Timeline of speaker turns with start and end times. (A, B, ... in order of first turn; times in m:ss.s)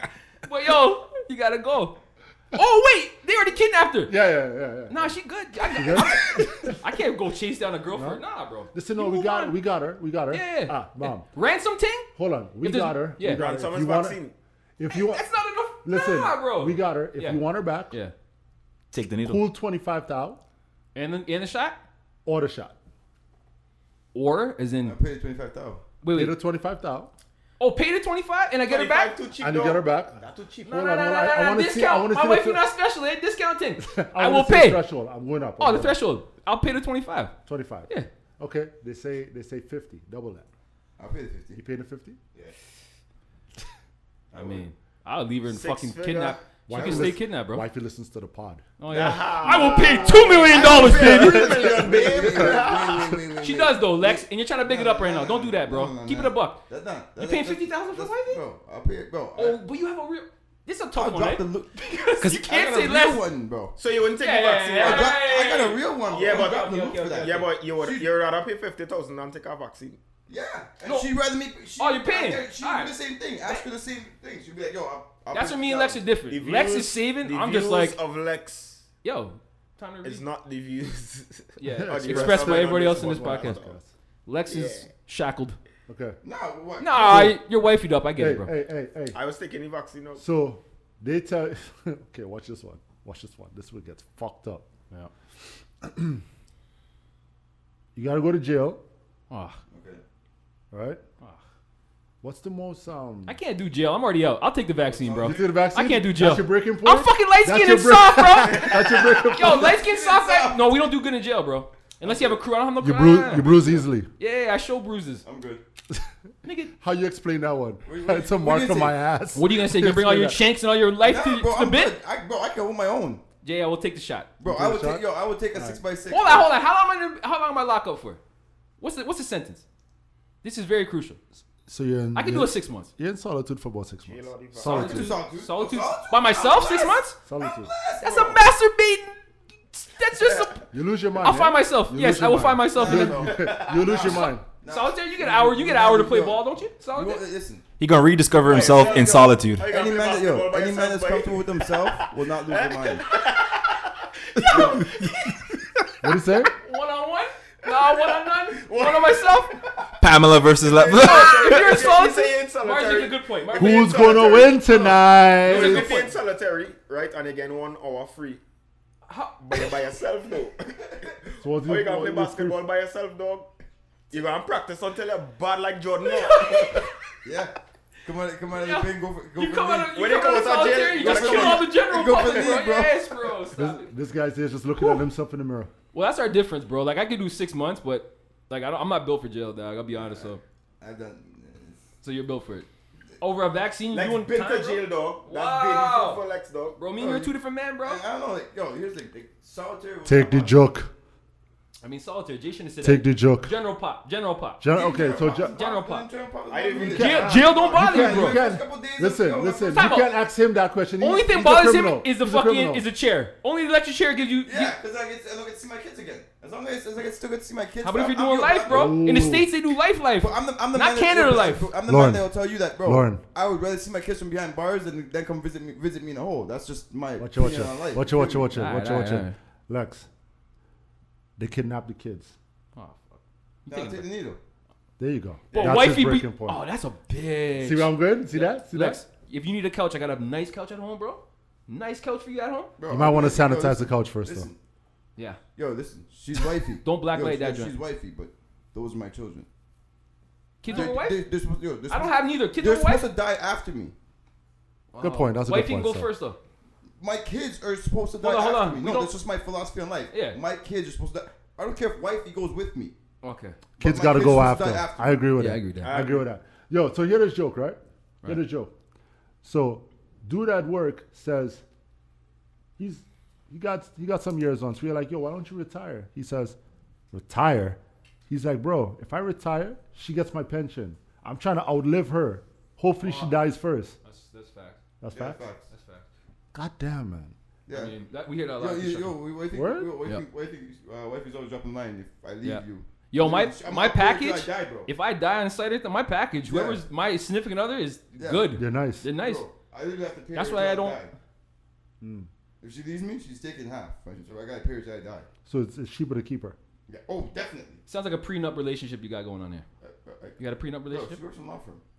0:00.4-0:02.0 A
0:02.5-0:04.2 A
0:04.1-0:05.2 B
0:04.9-0:09.6 A
0:05.7-0:06.8 B
0:07.9-0:08.2 B
0:08.7-0:11.3 B
0:10.3-0:12.1 A
0:12.2-0:14.2 B
0:12.6-0:13.4 A
0:13.2-0:14.3 C
0:14.8-0:15.2 B
0:14.9-0:18.1 A
0:15.8-0:18.0 B
0:18.9-0:19.4 D
0:19.2-0:20.4 B
0:21.0-0:21.8 A
0:22.3-0:22.8 B
0:24.1-0:25.0 A
0:24.8-0:25.8 E
0:26.0-0:26.4 A
0:26.1-0:27.1 B
0:27.6-0:29.1 A
0:28.6-0:30.7 C
0:29.4-0:32.6 B
0:30.6-0:34.9 A
0:33.8-0:36.0 B
0:35.6-0:37.3 A
0:37.5-0:40.5 B
0:41.0-0:41.6 E
0:41.6-0:42.2 B
0:44.3-0:44.6 E
0:44.3-0:47.7 A
0:45.4-0:46.6 C
0:46.7-0:48.7 B
0:48.8-0:51.8 A
0:48.9-0:53.2 C
0:50.0-0:59.6 E
0:50.6-0:52.6 B
0:53.4-0:56.6 A
0:57.2-0:58.4 A
0:59.4-1:03.2 A
1:01.0-1:03.8 E
1:03.8-1:05.2 C
1:04.2-1:07.4 A
1:04.8-1:08.1 E
1:06.1-1:10.0 C
1:10.3-1:16.0 E
1:10.8-1:11.1 A
1:11.8-1:13.7 A
1:15.3-1:18.0 A
1:16.3-1:18.8 C
1:19.0-1:20.2 A
1:20.0-1:23.8 C
1:21.6-1:23.6 A
1:21.6-1:23.9 B
1:24.3-1:25.6 A
1:24.5-1:24.9 C
1:25.9-1:26.2 B
1:26.2-1:27.3 E
1:26.8-1:28.5 A
1:26.9-1:27.4 B
1:28.2-1:29.2 B
1:29.1-1:30.2 C
1:30.2-1:34.7 B
1:35.8-1:36.2 B
1:38.0-1:38.8 B
1:39.3-1:39.6 A
1:39.7-1:40.0 E
1:40.7-1:41.0 B
1:42.2-1:43.4 B
1:43.3-1:53.6 A
1:44.8-1:45.7 E
1:45.2-1:49.8 B
1:49.0-1:50.8 E
1:52.0-1:52.4 E
1:52.8-1:54.1 B
1:53.3-1:53.9 E
1:54.2-1:55.2 A
1:55.2-1:55.6 E
1:56.4-1:56.7 A
1:56.8-2:00.4 B
1:57.8-1:59.0 E
1:59.4-2:02.0 A
2:01.0-2:03.2 E
2:03.4-2:04.3 A
2:04.4-2:06.5 E
2:04.4-2:05.8 B
2:06.1-2:08.2 A
2:08.8-2:09.6 A
2:10.4-2:11.4 A
2:11.7-2:15.1 B
2:12.2-2:12.9 A
2:14.0-2:15.2 C
2:14.6-2:17.2 A
2:14.6-2:18.4 E
2:17.2-2:17.7 B
2:18.0-2:19.2 A
2:19.7-2:20.6 A
2:20.2-2:20.5 E
2:20.7-2:24.5 B
2:21.2-2:27.2 A
2:22.7-2:27.6 E
2:23.0-2:24.1 C
2:27.8-2:29.7 D
2:28.4-2:35.2 C
2:28.6-2:28.9 E
2:29.7-2:33.1 E
2:34.4-2:35.3 D
2:34.5-2:34.8 A
2:34.5-2:34.9 E
2:36.0-2:36.5 B
2:36.6-2:39.6 A
2:37.6-2:39.6 C
2:40.0-2:41.8 D
2:40.5-2:48.4 C
2:41.0-2:44.8 A
2:43.6-2:45.9 B
2:45.4-2:46.1 A
2:49.1-2:49.6 A
2:49.4-2:53.5 C
2:51.4-2:52.6 B
2:54.1-2:56.9 C
2:56.0-2:56.9 A
2:57.2-3:00.0 E
2:58.5-3:03.9 A
2:59.9-3:01.8 C
3:00.9-3:03.3 E
3:03.5-3:05.7 B
3:05.9-3:10.4 A
3:09.9-3:11.8 E
3:12.0-3:12.7 A
3:13.2-3:16.2 A
3:13.9-3:16.8 C
3:16.8-3:18.0 A
3:17.0-3:20.6 E
3:20.1-3:20.9 B
3:21.8-3:24.6 A
3:22.8-3:23.5 B
3:24.6-3:25.6 B
3:24.7-3:30.0 E
3:25.5-3:26.1 A
3:26.5-3:27.6 C
3:26.9-3:32.9 B
3:26.9-3:28.4 A
3:29.7-3:30.1 A
3:31.0-3:34.8 A
3:34.4-3:39.3 E
3:37.8-3:41.7 A
3:38.7-3:39.5 B
3:40.2-3:48.6 E
3:41.9-3:42.3 B
3:42.8-3:43.2 B
3:47.2-3:50.1 B
3:48.5-3:49.4 A
3:51.4-3:52.4 B
3:52.8-3:54.1 A
3:53.7-3:54.4 E
3:55.0-3:56.6 B
3:55.5-4:02.7 A
3:57.6-3:59.0 B
4:02.8-4:04.6 E
4:02.9-4:04.5 B
4:05.6-4:09.5 E
4:06.8-4:07.7 A
4:10.6-4:11.3 A
4:10.7-4:14.0 E
4:11.9-4:13.1 A
4:14.9-4:16.4 A
4:15.0-4:16.1 B
4:17.0-4:23.0 E
4:18.2-4:19.2 A
4:20.1-4:20.4 A
4:23.2-4:23.6 A
4:23.8-4:28.7 B
4:23.8-4:25.2 E
4:25.4-4:25.9 A
4:25.8-4:26.3 C
4:29.4-4:31.6 B
4:32.8-4:36.6 B
4:37.1-4:44.0 B
4:43.0-4:43.5 A
4:44.0-4:44.8 A
4:45.0-4:45.4 B
4:45.1-4:45.7 E
4:45.7-4:46.1 A
4:46.5-4:47.4 B
4:47.7-4:54.9 E
4:47.7-4:49.2 A
4:49.5-4:50.0 B
4:52.4-4:59.4 A
4:56.4-4:56.8 E
4:58.2-4:58.6 E
4:58.6-4:59.1 B
4:59.1-5:01.1 E
5:00.3-5:01.0 A
5:02.0-5:02.3 B
5:02.6-5:05.3 E
5:05.5-5:06.6 B
5:06.9-5:07.8 E
5:07.9-5:09.6 A
5:09.8-5:11.8 E
5:10.4-5:11.2 A